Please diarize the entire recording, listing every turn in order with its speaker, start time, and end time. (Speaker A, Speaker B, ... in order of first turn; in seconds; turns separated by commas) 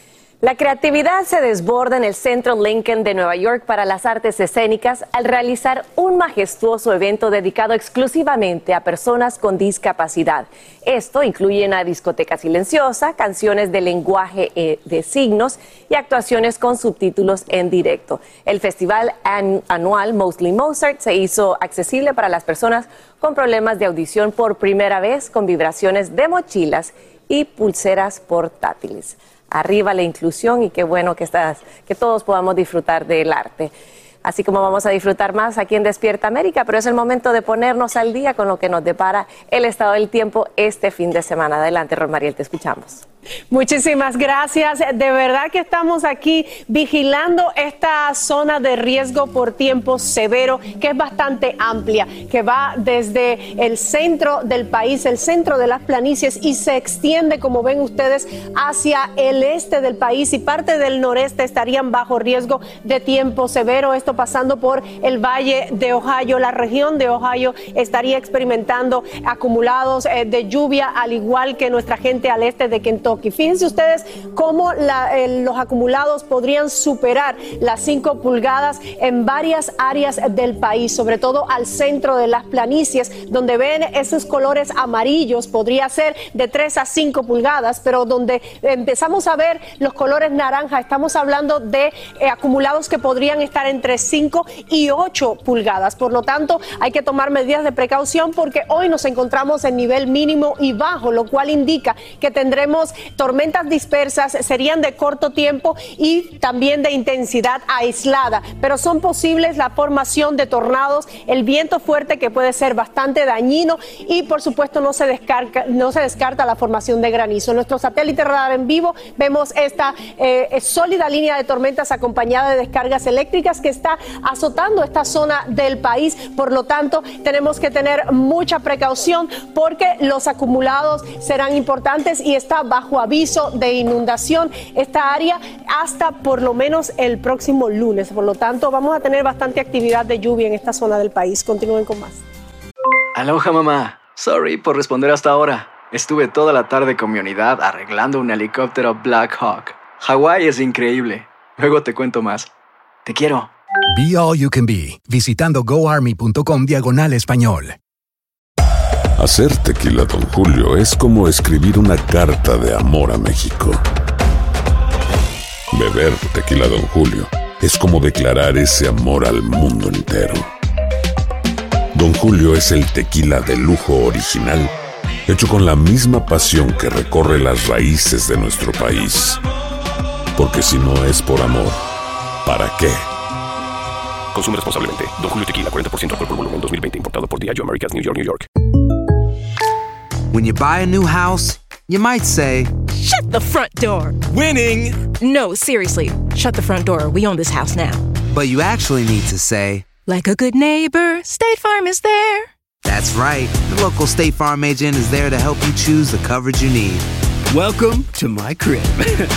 Speaker A: 0.4-33.7, Speaker A: 34.2-43.0, Speaker B: 43.5-142.2, Speaker C: 143.1-152.5, Speaker C: 153.0-153.5, Speaker D: 153.9-157.8, Speaker E: 159.2-163.8, Speaker E: 165.7-170.5, Speaker E: 171.9-174.7, Speaker E: 175.3-179.4, Speaker E: 180.3-181.8, Speaker E: 182.4-183.0, Speaker F: 184.3-188.4, Speaker G: 190.3-192.7, Speaker H: 192.9-194.2, Speaker H: 195.2-198.0, Speaker G: 198.3-199.8, Speaker H: 200.1-202.5, Speaker G: 202.8-207.0